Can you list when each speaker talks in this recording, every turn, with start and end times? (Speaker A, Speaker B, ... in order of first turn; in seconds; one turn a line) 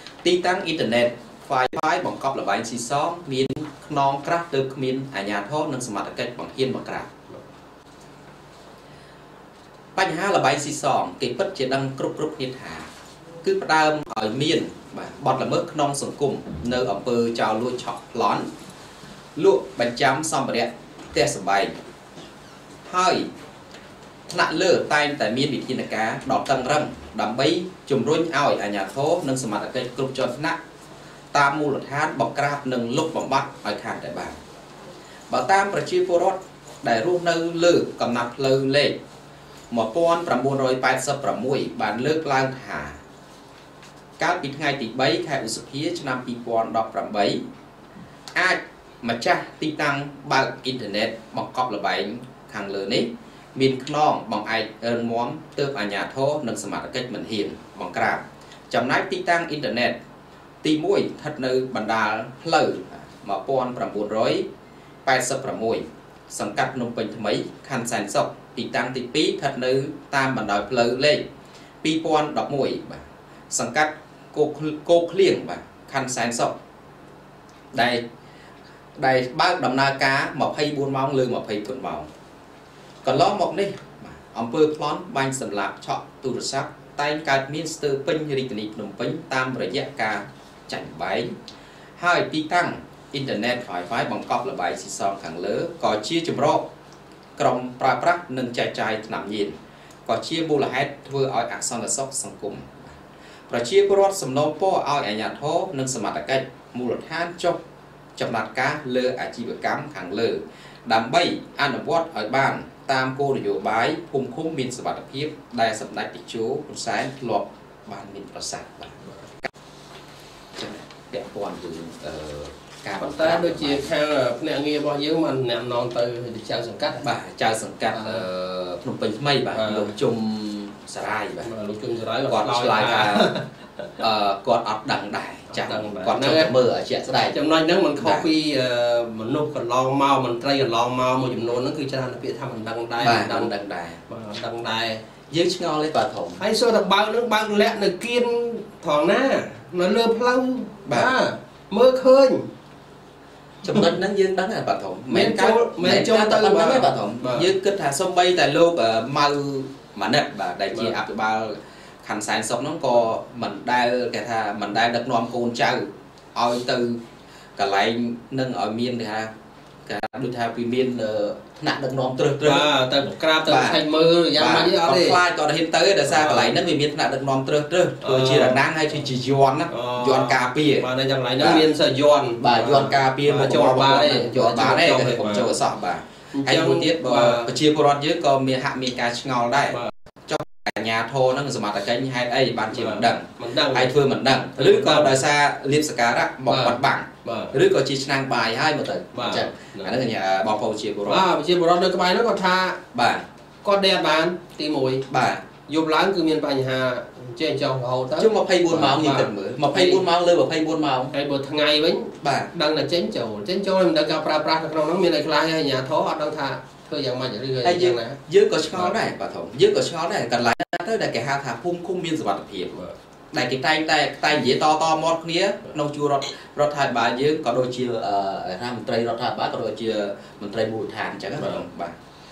Speaker A: 0.2-7.1
Speaker A: 10.0-12.9
Speaker A: 13.4-18.5
Speaker A: 19.4-21.7
Speaker A: 22.9-23.3
Speaker A: 24.3-30.6
Speaker A: 31.3-34.4
Speaker A: 35.3-39.0
Speaker A: 39.7-43.0
Speaker A: 44.2-47.4
Speaker A: 48.4-60.0
Speaker A: 60.6-64.5
Speaker A: 65.0-71.2
Speaker A: 71.8-76.5
Speaker A: 77.7-78.0
Speaker A: 79.0-82.1
Speaker A: 83.0-91.3
Speaker A: 92.0-96.7
Speaker A: 97.4-99.5
Speaker A: 100.1-103.0
Speaker A: 103.5-107.6
Speaker A: 108.2-119.0
Speaker A: 120.6-123.9
Speaker B: 123.0-127.1
Speaker A: 127.0-131.5
Speaker B: 127.9-128.2
Speaker B: 129.5-130.0
Speaker B: 131.4-133.9
Speaker A: 132.3-133.3
Speaker A: 134.0-137.4
Speaker B: 135.5-136.5
Speaker B: 137.3-143.5
Speaker A: 138.0-138.3
Speaker A: 143.0-144.0
Speaker B: 144.1-145.0
Speaker A: 145.3-146.4
Speaker B: 146.4-152.5
Speaker A: 150.9-151.1
Speaker A: 153.6-167.0
Speaker B: 155.1-157.5
Speaker A: 167.6-169.3
Speaker A: 169.9-172.7
Speaker B: 172.4-175.2
Speaker A: 173.4-173.8
Speaker A: 174.4-180.9
Speaker B: 176.1-176.5
Speaker B: 178.0-178.6
Speaker B: 179.7-185.5
Speaker A: 182.4-201.2
Speaker B: 186.3-187.5
Speaker B: 192.7-193.9
Speaker B: 194.5-195.2
Speaker B: 196.5-197.6
Speaker B: 199.1-199.9
Speaker B: 201.1-202.8
Speaker A: 202.9-203.2
Speaker B: 203.6-205.1
Speaker A: 205.1-205.4
Speaker B: 205.7-210.0
Speaker A: 208.2-211.1
Speaker B: 211.1-218.2
Speaker A: 212.2-212.5
Speaker A: 217.6-222.8
Speaker A: 223.3-232.0
Speaker B: 231.4-231.6